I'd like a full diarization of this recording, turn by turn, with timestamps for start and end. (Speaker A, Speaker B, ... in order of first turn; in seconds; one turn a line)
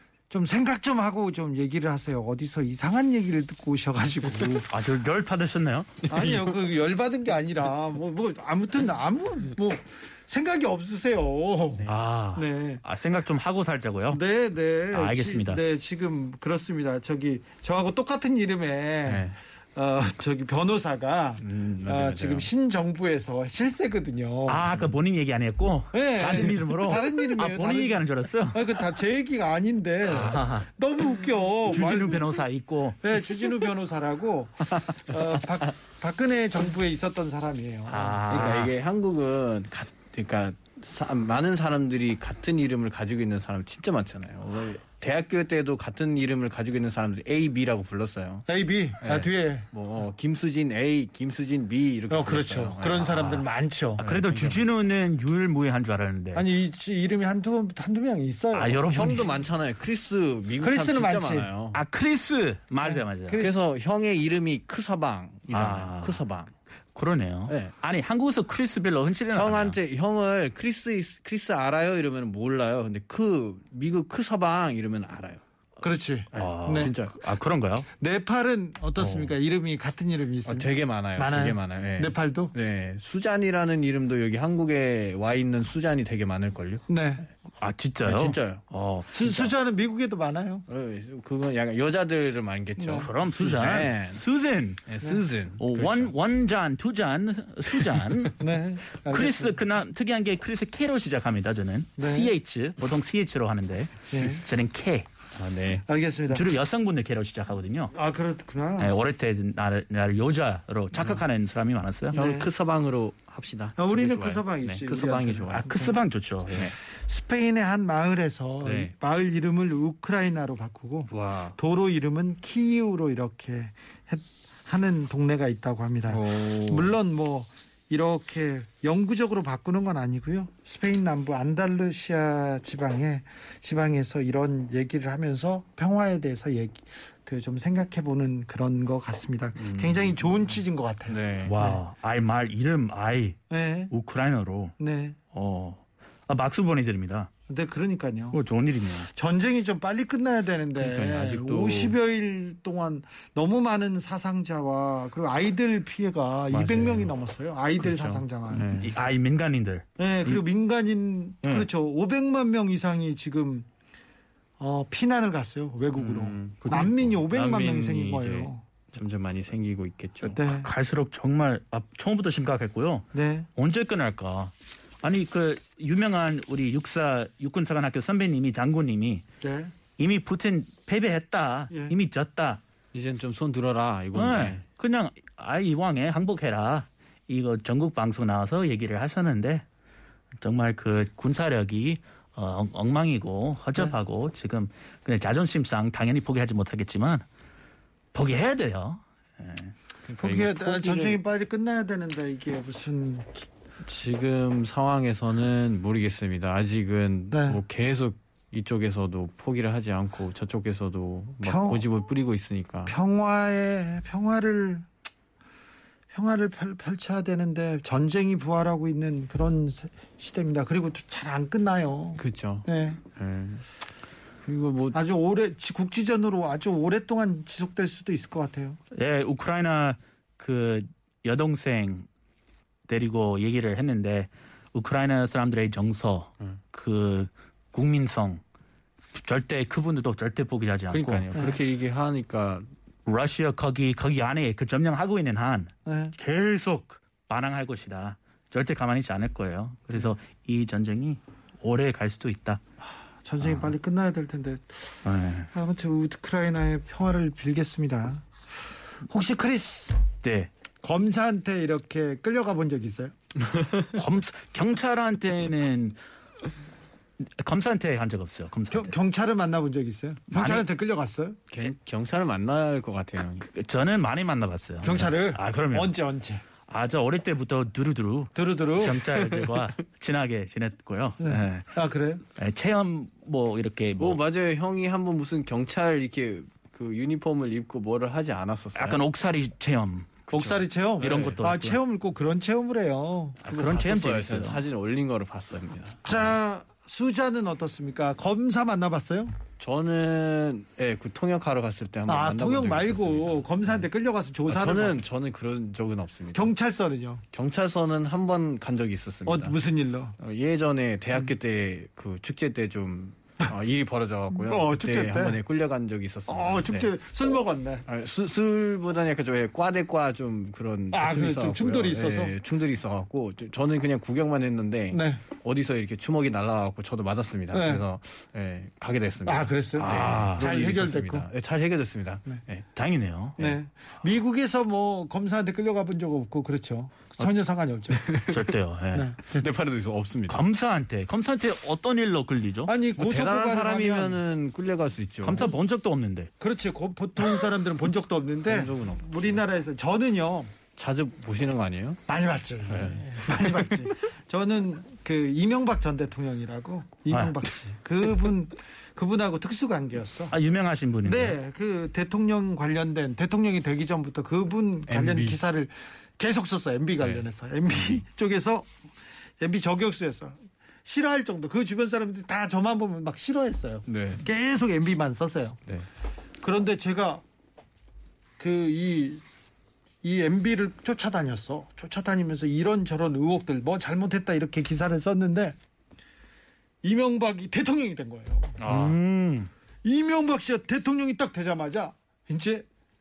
Speaker A: 0.3-4.7
Speaker B: 4.7-6.0
Speaker C: 6.1-6.5
Speaker A: 6.1-12.8
Speaker B: 11.9-14.2
Speaker A: 14.1-24.7
Speaker B: 14.9-15.6
Speaker C: 19.1-19.4
Speaker C: 21.4-22.5
Speaker B: 24.5-28.7
Speaker A: 25.9-32.4
Speaker B: 30.1-30.7
Speaker B: 31.7-33.0
Speaker A: 33.0-38.5
Speaker B: 37.9-38.7
Speaker C: 38.3-48.5
Speaker A: 48.5-49.7
Speaker C: 49.0-53.5
Speaker A: 52.1-54.0
Speaker B: 54.0-56.5
Speaker C: 54.0-54.7
Speaker A: 56.3-59.2
Speaker B: 58.5-59.3
Speaker C: 58.9-61.8
Speaker A: 60.6-61.5
Speaker B: 61.7-63.4
Speaker A: 62.8-63.7
Speaker C: 63.3-66.5
Speaker B: 65.5-66.2
Speaker B: 66.9-69.8
Speaker C: 67.5-67.7
Speaker C: 69.3-75.4
Speaker A: 75.8-76.9
Speaker C: 76.3-77.2
Speaker B: 76.3-77.9
Speaker A: 78.0-82.5
Speaker C: 79.0-79.3
Speaker C: 80.4-86.8
Speaker A: 86.9-87.2
Speaker B: 87.6-89.5
Speaker C: 88.0-88.6
Speaker A: 89.1-90.6
Speaker C: 90.7-94.2
Speaker A: 92.8-93.1
Speaker B: 93.0-94.8
Speaker C: 94.8-96.1
Speaker B: 95.6-98.3
Speaker A: 98.4-99.6
Speaker B: 99.0-105.1
Speaker A: 102.0-102.3
Speaker A: 104.1-104.4
Speaker C: 105.3-105.8
Speaker A: 105.8-106.5
Speaker B: 106.3-107.9
Speaker A: 107.9-108.9
Speaker B: 108.8-112.2
Speaker A: 112.1-112.5
Speaker C: 112.1-115.8
Speaker A: 113.8-116.0
Speaker B: 115.5-116.7
Speaker A: 116.8-141.8
Speaker C: 118.6-118.9
Speaker C: 121.1-121.6
Speaker C: 126.1-126.9
Speaker C: 139.6-140.5
Speaker C: 141.1-141.6
Speaker B: 141.4-143.4
Speaker A: 143.5-143.9
Speaker B: 143.9-144.7
Speaker A: 144.8-145.2
Speaker B: 145.3-147.3
Speaker A: 147.5-148.4
Speaker B: 148.3-149.1
Speaker A: 149.1-158.7
Speaker C: 150.7-151.9
Speaker C: 156.5-157.1
Speaker C: 157.8-158.9
Speaker B: 158.7-160.4
Speaker A: 160.0-163.7
Speaker B: 161.4-161.7
Speaker A: 164.6-168.6
Speaker C: 166.0-170.4
Speaker B: 166.6-166.9
Speaker B: 170.3-179.2
Speaker A: 170.3-170.7
Speaker A: 173.1-173.5
Speaker A: 179.4-179.7
Speaker B: 180.0-182.6
Speaker C: 182.9-184.6
Speaker B: 184.1-189.6
Speaker B: 190.4-197.2
Speaker B: 198.1-199.7
Speaker C: 200.1-201.2
Speaker A: 200.2-203.5
Speaker C: 203.8-212.9
Speaker A: 207.3-207.6
Speaker A: 211.4-211.8
Speaker A: 212.9-214.8
Speaker A: 216.1-223.0
Speaker C: 222.2-223.6
Speaker C: 224.4-225.0
Speaker A: 224.9-228.8
Speaker B: 228.9-232.1
Speaker B: 232.9-238.4
Speaker B: 239.1-241.2
Speaker C: 240.9-242.7
Speaker B: 243.1-252.6
Speaker A: 245.8-246.1
Speaker A: 253.2-255.0
Speaker B: 255.0-255.5
Speaker A: 255.5-258.2
Speaker A: 259.1-260.0
Speaker B: 260.2-260.5
Speaker A: 260.8-263.1
Speaker C: 263.4-263.9
Speaker B: 263.9-266.0
Speaker B: 267.2-268.9
Speaker A: 268.7-271.4
Speaker B: 270.3-270.7
Speaker C: 271.5-273.4
Speaker B: 273.4-275.9
Speaker A: 274.8-276.4
Speaker B: 276.7-281.6
Speaker A: 278.3-279.1
Speaker C: 279.3-279.6
Speaker A: 281.2-282.2
Speaker B: 282.4-284.2
Speaker C: 284.0-289.0
Speaker B: 288.7-290.2
Speaker C: 290.3-291.4
Speaker A: 290.3-293.6
Speaker B: 291.0-291.8
Speaker B: 293.4-294.6
Speaker C: 293.5-296.3
Speaker A: 296.0-299.3
Speaker C: 299.6-303.8
Speaker A: 302.1-305.0
Speaker C: 304.5-306.5
Speaker A: 306.3-307.2
Speaker C: 307.3-309.6
Speaker A: 309.2-310.1
Speaker C: 310.2-316.9
Speaker A: 314.3-315.4
Speaker A: 316.3-317.9
Speaker C: 317.9-332.6
Speaker A: 320.9-322.4
Speaker A: 324.9-325.2
Speaker A: 327.5-327.8
Speaker A: 329.2-331.3
Speaker B: 329.8-330.4
Speaker B: 332.7-333.4
Speaker A: 333.4-338.1
Speaker C: 337.9-338.5
Speaker B: 338.3-339.1
Speaker A: 338.9-339.5
Speaker C: 339.2-340.4
Speaker B: 340.3-342.7
Speaker A: 342.6-344.2
Speaker C: 343.0-345.5
Speaker B: 345.2-346.3
Speaker A: 346.4-350.5
Speaker C: 348.4-349.4
Speaker C: 350.7-352.0
Speaker A: 352.1-360.3
Speaker C: 352.7-353.7
Speaker B: 357.1-357.4
Speaker B: 360.3-361.4
Speaker A: 361.0-368.7
Speaker C: 364.9-365.4
Speaker A: 369.4-375.6
Speaker C: 373.9-374.2
Speaker A: 376.4-377.2
Speaker A: 378.4-379.2
Speaker A: 380.0-385.6
Speaker A: 386.8-388.6
Speaker C: 388.6-389.0
Speaker B: 388.6-389.5
Speaker A: 389.8-392.6